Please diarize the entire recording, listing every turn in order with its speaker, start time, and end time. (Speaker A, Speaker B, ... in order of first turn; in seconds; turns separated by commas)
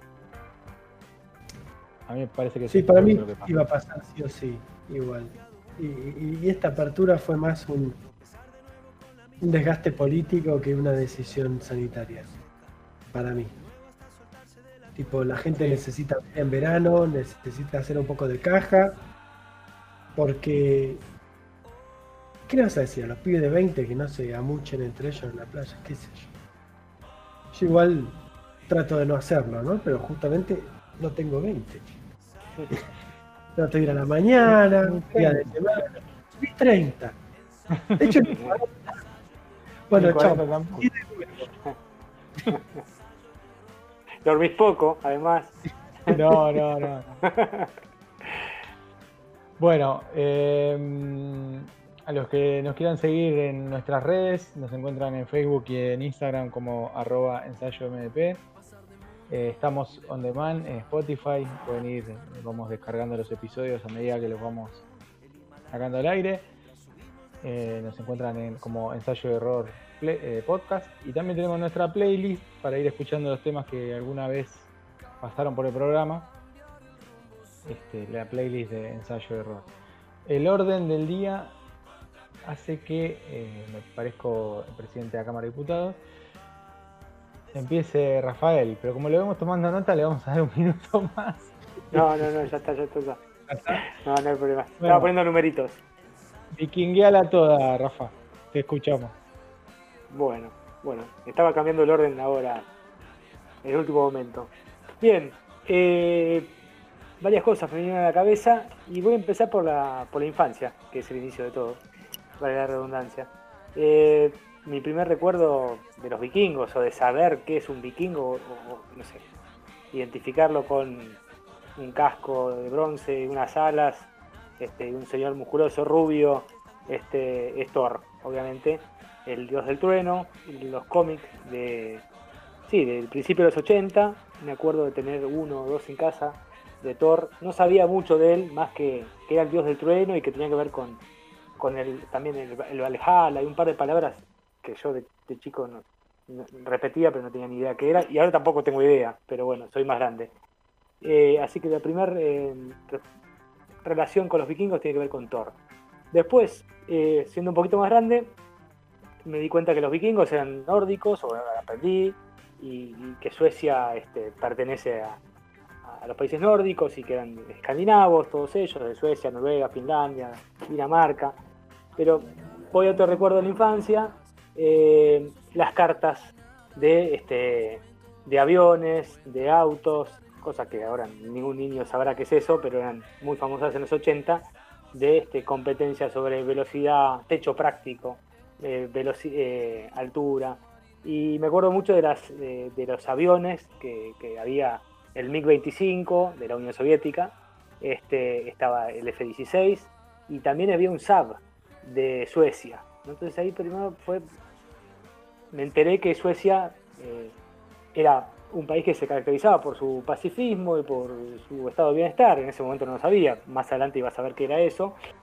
Speaker A: 2.1-3.6, Speaker B: 2.7-8.0, Speaker B: 9.4-12.3, Speaker B: 13.1-13.6, Speaker B: 14.9-19.0, Speaker B: 20.2-21.0, Speaker B: 22.5-26.3, Speaker B: 27.5-28.1, Speaker B: 28.7-31.8, Speaker B: 33.6-37.2, Speaker A: 34.4-35.5, Speaker A: 37.7-38.2, Speaker B: 38.0-39.0, Speaker C: 38.3-38.6, Speaker B: 39.9-41.5, Speaker A: 39.9-40.9, Speaker C: 44.2-46.4, Speaker A: 46.1-47.1, Speaker C: 47.3-47.7, Speaker A: 49.6-58.5, Speaker A: 59.3-64.9, Speaker A: 65.7-66.5, Speaker A: 67.4-76.3, Speaker A: 77.7-79.7, Speaker A: 80.3-81.5, Speaker A: 82.4-86.0, Speaker A: 87.5-92.5, Speaker C: 91.9-93.2, Speaker A: 93.5-93.8, Speaker C: 93.7-95.8, Speaker A: 94.8-95.1, Speaker A: 96.5-99.2, Speaker C: 100.1-102.7, Speaker C: 103.6-106.5, Speaker C: 107.2-111.8, Speaker C: 112.4-119.2, Speaker C: 119.9-121.2, Speaker C: 121.8-132.0, Speaker C: 132.7-141.0, Speaker C: 141.6-150.3, Speaker C: 151.0-153.0, Speaker C: 153.8-155.6, Speaker C: 156.1-158.3, Speaker C: 159.2-165.2, Speaker C: 165.8-171.4, Speaker C: 172.0-204.2, Speaker C: 205.5-207.3, Speaker C: 207.9-215.0